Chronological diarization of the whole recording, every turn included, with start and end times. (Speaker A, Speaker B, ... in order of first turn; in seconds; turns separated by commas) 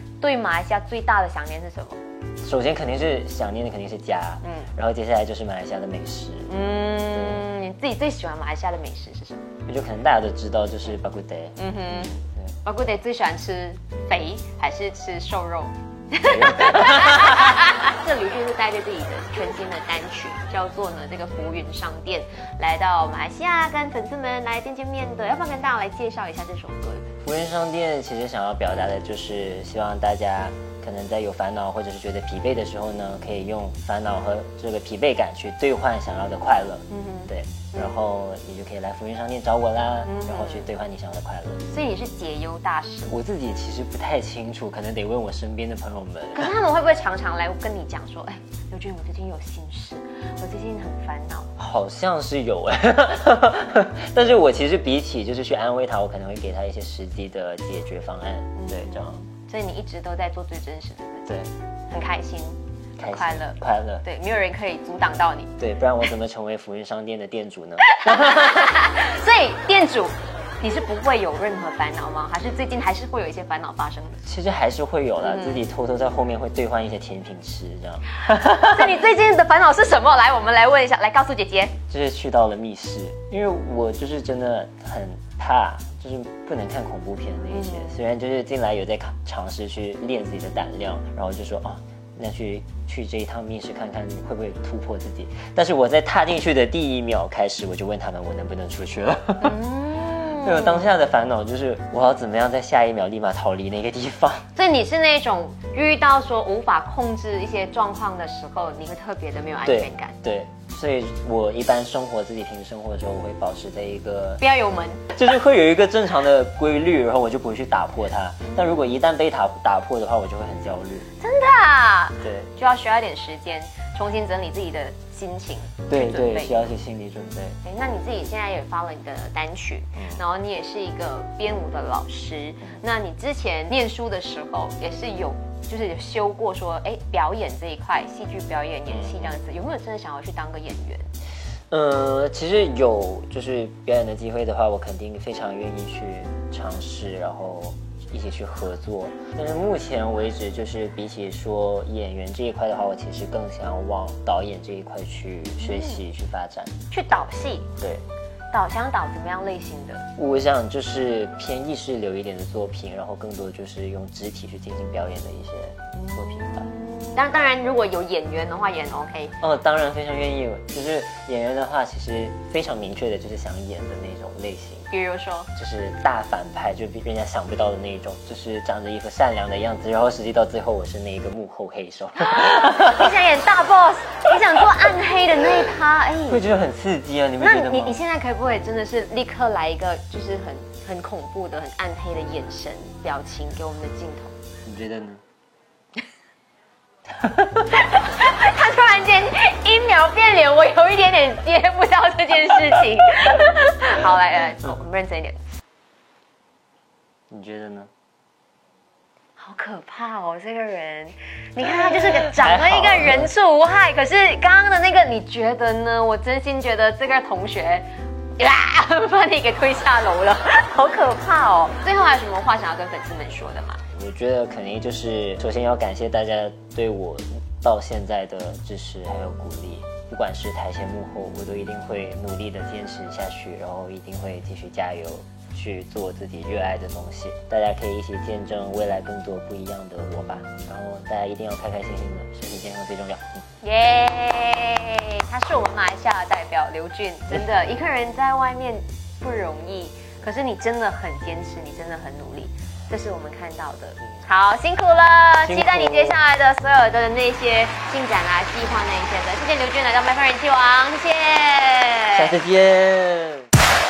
Speaker A: 0.2-2.0, Speaker B: 2.4-6.5, Speaker A: 4.4-4.7, Speaker A: 6.5-9.5, Speaker B: 7.1-7.4, Speaker B: 9.7-12.5, Speaker A: 11.6-12.1, Speaker A: 12.6-27.1, Speaker B: 16.2-17.6, Speaker B: 27.2-41.6, Speaker A: 36.9-37.9, Speaker A: 40.0-40.7, Speaker A: 41.7-43.1, Speaker B: 43.0-46.5, Speaker A: 46.3-51.5, Speaker B: 51.6-59.2, Speaker A: 58.6-61.3, Speaker A: 61.9-65.5, Speaker B: 63.0-64.0, Speaker B: 65.6-68.7, Speaker A: 67.8-74.2, Speaker B: 74.2-78.9, Speaker A: 78.3-81.7, Speaker B: 81.9-99.6, Speaker A: 87.5-88.0, Speaker A: 99.4-100.8, Speaker B: 100.3-104.5, Speaker A: 104.5-110.2, Speaker B: 109.6-114.4, Speaker A: 114.4-115.1, Speaker B: 115.1-121.1, Speaker A: 121.2-126.7, Speaker B: 122.2-122.5, Speaker B: 125.9-127.6, Speaker A: 127.6-141.1, Speaker B: 138.9-139.3, Speaker B: 141.7-156.7, Speaker A: 155.6-156.0, Speaker A: 156.9-157.7, Speaker B: 157.8-158.0, Speaker A: 158.5-160.1, Speaker B: 160.2-166.7, Speaker A: 165.9-169.3, Speaker B: 169.4-174.9, Speaker A: 174.9-175.5, Speaker B: 175.5-183.1, Speaker A: 182.2-186.4, Speaker B: 186.3-188.0, Speaker A: 187.4-194.3, Speaker B: 194.6-195.2, Speaker A: 197.7-205.4, Speaker B: 207.3-207.9, Speaker A: 209.4-223.8, Speaker B: 211.8-213.3, Speaker B: 223.9-243.4, Speaker A: 243.6-262.3, Speaker B: 255.4-256.2, Speaker B: 262.1-263.5